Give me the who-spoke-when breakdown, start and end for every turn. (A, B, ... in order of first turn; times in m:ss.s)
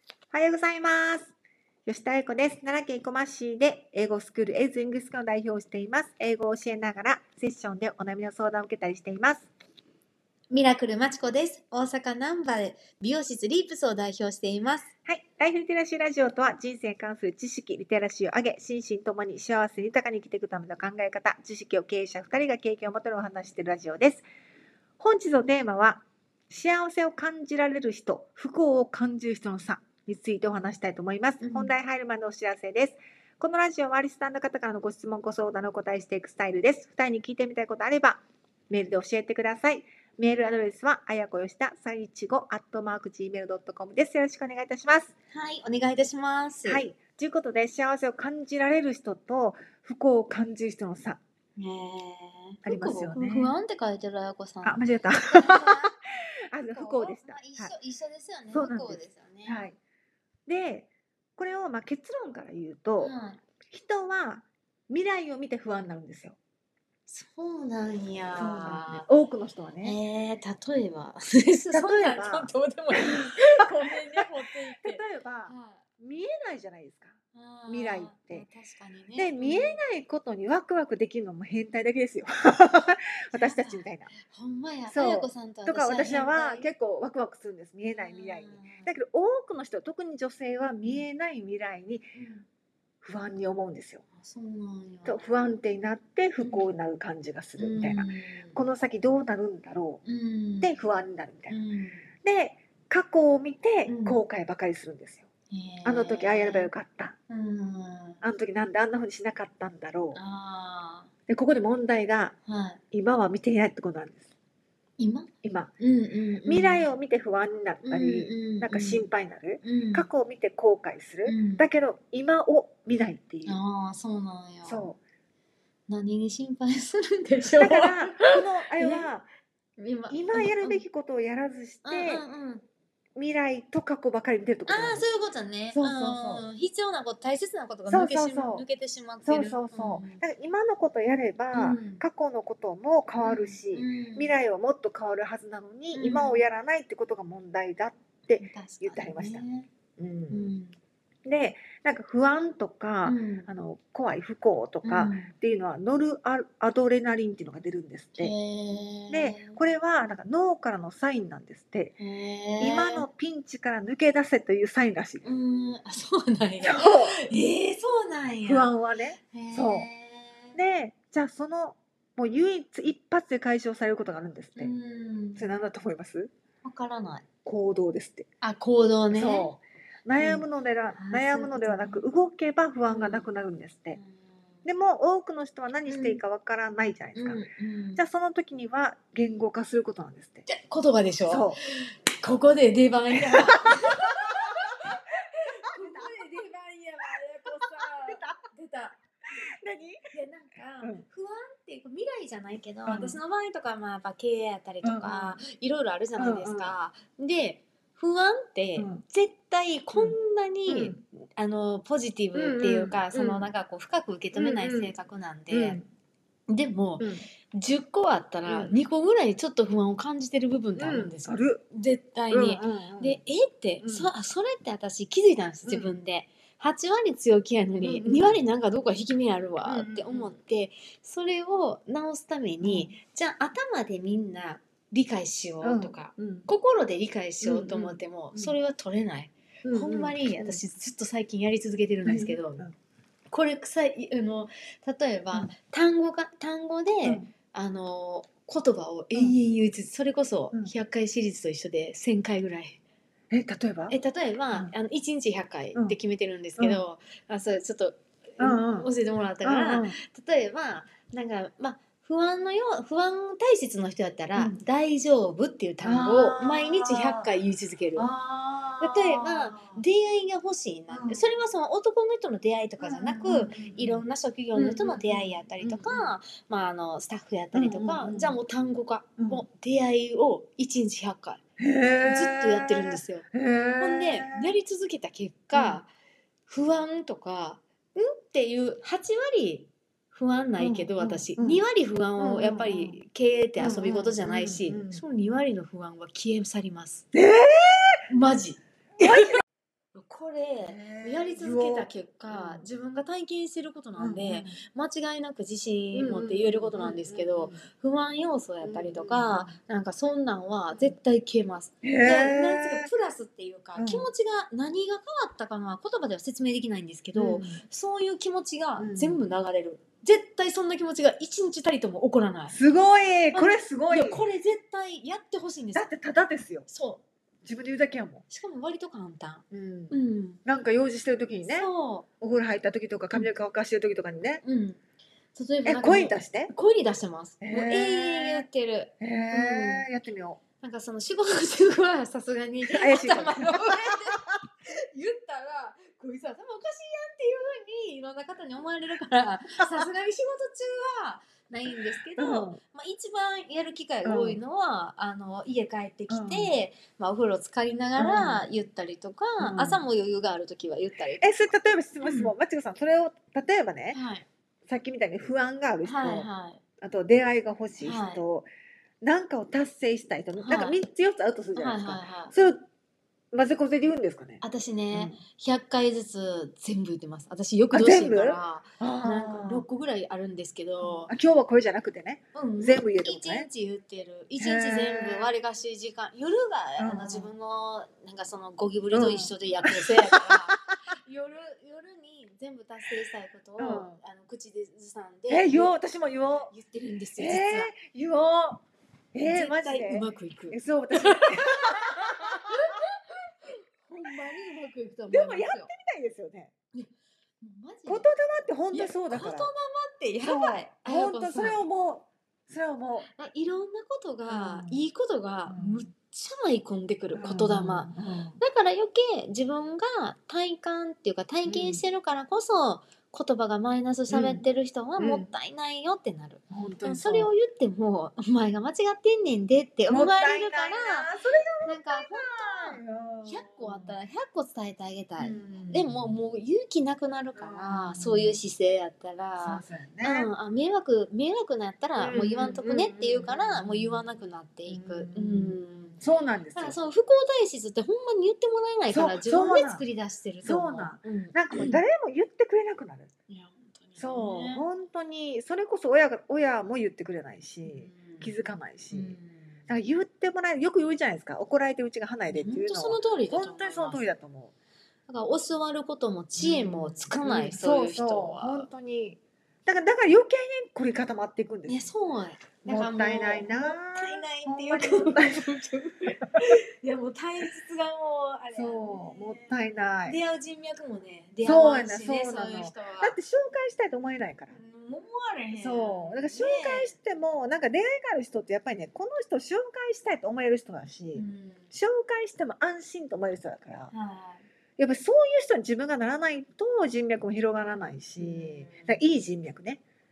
0:00.3-0:01.3 A
0:01.9-0:09.5 A
0:10.5-0:14.9 B
0:15.0-0:24.2 A
0:25.0-0:45.1 A
0:31.4-0:31.7 B
0:45.3-0:46.8 B
0:46.6-0:51.2 A
0:51.6-0:55.9 B
0:52.6-0:53.5 A
0:54.6-0:55.9 A
0:56.5-0:57.7 A
0:56.7-0:59.6 B
0:58.5-0:59.8 A
1:00.5-1:03.1 A
1:03.0-1:03.4 B
1:03.7-1:06.4 A
1:07.1-1:09.1 B
1:08.4-1:10.0 A
1:09.8-1:15.8 B
1:11.7-1:13.3 A
1:14.8-1:17.2 A
1:17.3-1:19.8 B
1:17.7-1:18.5 A
1:19.2-1:24.1 A
1:23.3-1:26.7 B
1:24.9-1:32.1 A
1:27.9-1:28.9 B
1:32.1-1:32.4 B
1:33.0-1:34.0 A
1:34.2-1:35.3 B
1:35.0-1:40.0 A
1:36.4-1:36.7 B
1:37.6-1:38.6 B
1:40.0-1:40.7 B
1:40.6-1:41.6 A
1:41.5-1:42.1 B
1:42.2-1:45.3 A
1:43.9-1:44.2 B
1:45.5-1:46.7 B
1:45.8-1:47.2 A
1:47.3-1:48.2 B
1:48.2-1:50.2 A
1:50.1-1:51.1 B
1:51.3-1:52.4 A
1:52.5-1:52.8 B
1:52.9-1:54.3 A
1:55.0-1:56.9 B
1:55.4-1:55.7 A
1:56.4-2:03.6 A
1:57.8-1:59.1 B
1:59.6-2:00.1 B
2:01.2-2:01.7 B
2:03.4-2:04.9 B
2:04.6-2:05.0 A
2:05.9-2:09.1 B
2:07.5-2:09.3 A
2:09.8-2:10.8 B
2:10.1-2:12.2 A
2:11.8-2:12.6 B
2:13.2-2:15.0 A
2:14.7-2:20.2 B
2:15.7-2:16.5 A
2:17.9-2:18.6 A
2:19.2-2:29.4 A
2:21.5-2:22.0 B
2:23.2-2:24.3 B
2:25.9-2:26.4 B
2:28.4-2:29.7 B
2:30.0-2:30.5 A
2:30.3-2:30.8 B
2:31.2-2:38.3 A
2:33.0-2:33.5 B
2:34.8-2:35.3 B
2:38.2-2:39.6 B
2:39.1-2:42.0 A
2:42.0-2:43.1 B
2:42.6-2:45.3 A
2:45.2-2:48.7 B
2:46.6-2:47.2 A
2:48.4-2:49.9 A
2:49.3-2:50.6 B
2:50.5-2:54.7 A
2:54.6-2:55.5 B
2:55.4-2:56.3 A
2:56.6-2:57.2 B
2:57.4-2:58.3 A
2:58.4-2:59.5 B
2:59.1-3:04.0 A
3:00.2-3:02.0 B
3:02.9-3:03.3 B
3:04.0-3:04.2 B
3:04.6-3:07.4 A
3:05.9-3:06.2 B
3:07.2-3:08.0 B
3:08.0-3:10.5 A
3:10.5-3:19.0 B
3:11.3-3:11.6 A
3:13.5-3:14.5 A
3:17.5-3:18.4 A
3:19.6-3:20.0 A
3:20.1-3:35.8 B
3:22.9-3:23.2 A
3:24.8-3:25.4 A
3:26.2-3:26.8 A
3:28.8-3:29.0 A
3:30.7-3:31.0 A
3:32.3-3:33.5 A
3:34.3-3:34.9 A
3:35.5-3:35.8 A
3:36.5-4:02.6 B
3:37.0-3:37.3 A
3:38.5-3:38.8 A
3:40.8-3:41.6 A
3:42.3-3:43.2 A
3:43.8-3:44.1 A
3:45.7-3:45.9 A
3:47.8-3:48.4 A
3:49.6-3:50.3 A
3:52.6-3:53.0 A
3:55.6-3:56.5 A
3:57.4-3:58.6 A
3:59.6-4:00.6 A
4:02.0-4:02.8 A
4:03.3-4:12.8 B
4:07.0-4:07.3 A
4:13.3-4:14.0 A
4:13.9-4:28.1 B
4:18.4-4:18.9 A
4:19.4-4:20.0 A
4:24.4-4:24.6 A
4:25.8-4:27.3 A
4:28.0-4:29.8 A
4:28.8-4:41.4 B
4:30.9-4:31.2 A
4:32.8-4:36.1 A
4:37.5-4:38.4 A
4:39.2-4:39.4 A
4:41.6-4:44.5 A
4:42.0-4:45.9 B
4:45.5-4:45.8 A
4:46.5-4:57.1 B
4:50.6-4:51.6 A
4:52.2-4:53.0 A
4:53.6-4:55.0 A
4:57.1-4:58.0 A
4:58.1-4:59.3 B
4:59.0-4:59.4 A
4:59.9-5:22.6 B
5:00.6-5:02.7 A
5:04.0-5:04.6 A
5:05.9-5:07.6 A
5:08.6-5:09.6 A
5:11.8-5:12.9 A
5:13.8-5:14.1 A
5:17.2-5:17.6 A
5:18.8-5:19.2 A
5:22.5-5:24.2 A
5:23.3-5:25.9 B
5:25.8-5:26.7 A
5:26.7-5:27.0 B
5:27.4-5:28.2 A
5:28.3-5:30.4 B
5:29.5-5:31.7 A
5:31.4-5:32.1 B
5:32.2-5:34.4 A
5:34.4-5:34.8 B
5:35.4-5:39.8 B
5:35.6-5:36.5 A
5:37.4-5:38.5 A
5:39.0-5:40.4 A
5:40.6-6:01.5 B
5:42.6-5:44.3 A
5:52.2-5:52.6 A
5:54.0-5:54.4 A
5:56.1-5:56.5 A
5:58.0-5:58.4 A
5:59.4-5:59.8 A
6:01.2-6:04.0 A
6:02.0-6:02.3 B
6:03.9-6:04.3 B
6:04.7-6:06.3 A
6:05.8-6:06.6 B
6:06.8-6:08.5 A
6:07.8-6:08.2 B
6:09.0-6:12.6 A
6:10.4-6:10.8 B
6:11.6-6:12.3 B
6:13.3-6:15.2 A
6:14.4-6:21.1 B
6:17.7-6:19.7 A
6:20.8-6:23.5 A
6:22.3-6:35.8 B
6:24.4-6:25.3 A
6:26.8-6:27.3 A
6:28.9-6:30.5 A
6:33.6-6:34.0 A
6:35.3-6:36.5 A
6:36.5-6:37.7 B
6:37.2-6:38.6 A
6:39.1-6:42.8 A
6:39.2-6:45.7 B
6:45.1-6:46.5 A
6:47.4-6:48.1 B
6:47.9-6:49.5 A
6:48.7-6:51.6 B
6:50.2-6:53.1 A
6:53.1-7:11.1 B
6:54.3-6:54.8 A
6:55.5-6:55.9 A
6:57.1-6:58.4 A
7:01.4-7:01.8 A
7:04.1-7:04.4 A
7:05.0-7:05.3 A
7:06.5-7:07.3 A
7:09.9-7:14.0 A
7:11.6-7:26.0 B
7:15.2-7:16.1 A
7:17.4-7:18.4 A
7:19.4-7:20.3 A
7:22.0-7:24.0 A
7:24.7-7:26.8 A
7:26.6-7:31.8 B
7:28.9-7:29.8 A
7:30.4-7:33.1 A
7:33.3-7:34.6 B
7:34.0-7:44.5 A
7:37.6-7:38.4 B
7:38.9-7:39.7 B
7:42.3-7:44.0 B
7:45.1-7:48.7 B
7:46.4-7:51.9 A
7:51.7-8:03.2 B
7:52.6-7:55.5 A
7:58.5-8:00.2 A
8:01.4-8:04.6 A
8:04.5-8:07.0 B
8:05.6-8:13.9 A
8:11.1-8:11.7 B
8:13.9-8:14.4 B
8:14.8-8:19.8 A
8:18.2-8:19.0 B